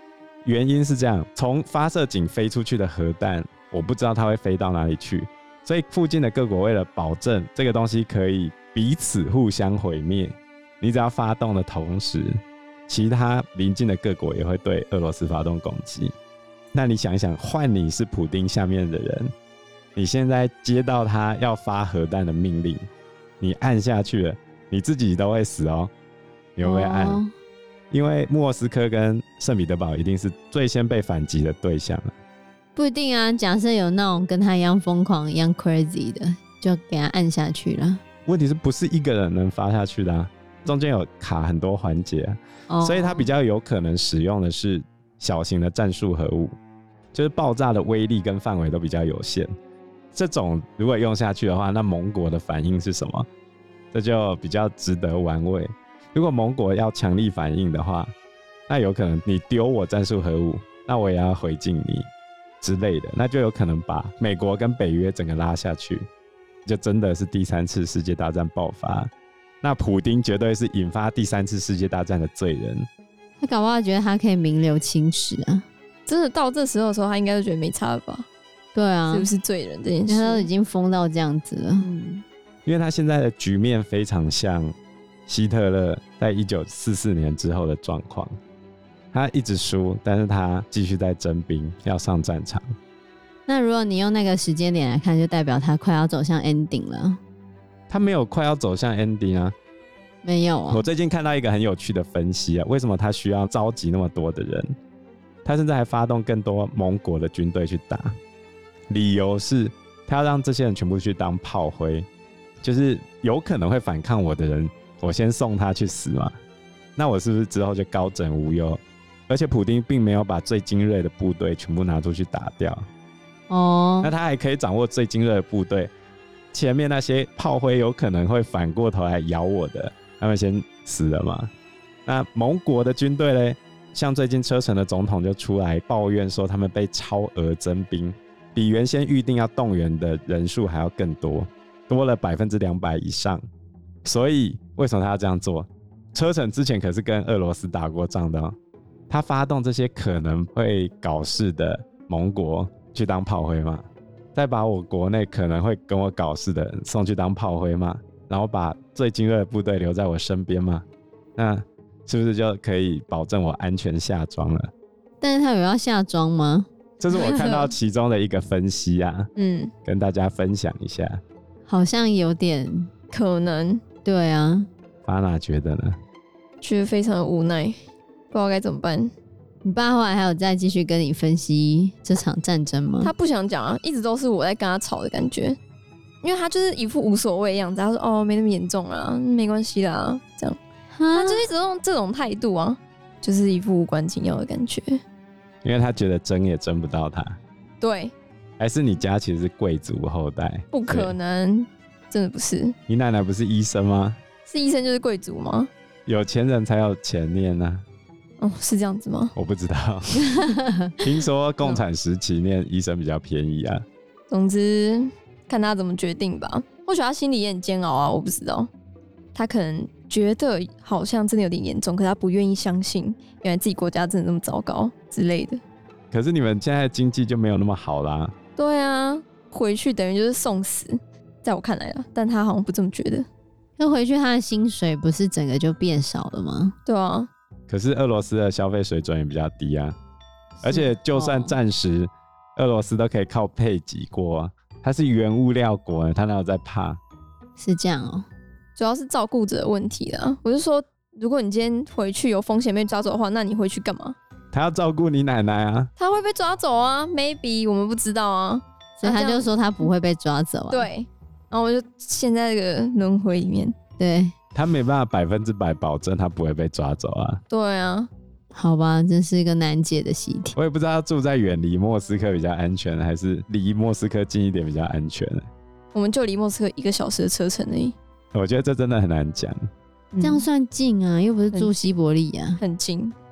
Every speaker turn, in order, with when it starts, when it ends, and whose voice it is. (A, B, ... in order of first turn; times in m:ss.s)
0:00.4-0:16.1 A
0:16.7-0:19.3 A
0:20.0-0:22.8 A
0:23.4-0:25.9 A
0:26.6-0:27.2 A
0:26.6-0:27.3 B
0:27.9-0:32.1 A
0:32.8-0:38.0 B
0:38.3-0:46.6 A
0:42.7-0:43.3 B
0:47.1-0:49.5 A
0:50.1-0:53.3 A
0:53.9-0:58.1 A
0:58.7-1:02.1 A
1:02.6-1:06.1 A
1:06.7-1:09.1 A
1:09.6-1:12.9 A
1:13.4-1:15.7 B
1:16.1-1:18.3 C
1:18.8-1:19.3 B
1:19.1-1:20.5 C
1:20.1-1:22.2 B
1:22.7-1:24.8 A
1:25.3-1:28.4 A
1:29.1-1:32.7 A
1:33.5-1:37.2 B
1:37.9-1:39.5 A
1:40.2-1:40.8 B
1:40.7-1:44.8 A
1:45.4-1:48.2 A
1:48.9-1:52.1 A
1:52.6-1:56.4 A
1:57.0-2:02.9 A
2:03.5-2:04.1 B
2:04.0-2:05.9 A
2:06.5-2:11.5 A
2:12.1-2:23.4 A
2:24.0-2:28.6 A
2:29.1-2:44.7 A
2:45.2-2:47.6 B
2:47.0-2:49.3 A
2:47.1-2:47.7 C
2:49.4-2:49.7 C
2:49.8-2:51.2 A
2:51.7-2:52.9 B
2:53.1-2:53.8 C
2:54.0-2:54.7 B
2:55.0-2:56.0 A
2:56.6-2:57.8 C
2:58.3-2:59.1 C
2:59.6-3:03.1 B
3:03.0-3:05.6 C
3:06.2-3:10.6 C
3:10.9-3:11.5 B
3:11.1-3:15.0 C
3:15.6-3:17.4 A
3:17.8-3:18.1 C
3:18.6-3:21.2 A
3:20.7-3:22.8 C
3:22.9-3:24.2 A
3:24.5-3:25.7 C
3:26.1-3:27.8 A
3:28.4-3:29.3 C
3:29.4-3:30.4 A
3:30.2-3:30.9 B
3:31.0-3:33.8 A
3:34.3-3:38.7 C
3:39.4-3:45.6 C
3:46.1-3:48.3 A
3:48.6-3:53.3 C
3:53.8-3:56.8 B
3:56.9-3:57.3 C
3:57.7-4:00.0 A
4:00.6-4:01.6 B
4:00.6-4:07.0 A
4:07.6-4:08.3 B
4:08.8-4:14.2 C
4:14.5-4:15.9 A
4:16.0-4:19.9 C
4:19.0-4:20.9 B
4:20.7-4:23.8 C
4:24.0-4:24.3 B
4:24.6-4:27.4 A
4:27.5-4:28.1 C
4:28.5-4:30.6 B
4:30.6-4:35.5 A
4:35.9-4:38.0 C
4:38.3-4:39.7 A
4:40.1-4:40.5 C
4:40.2-4:42.6 B
4:42.6-4:43.2 C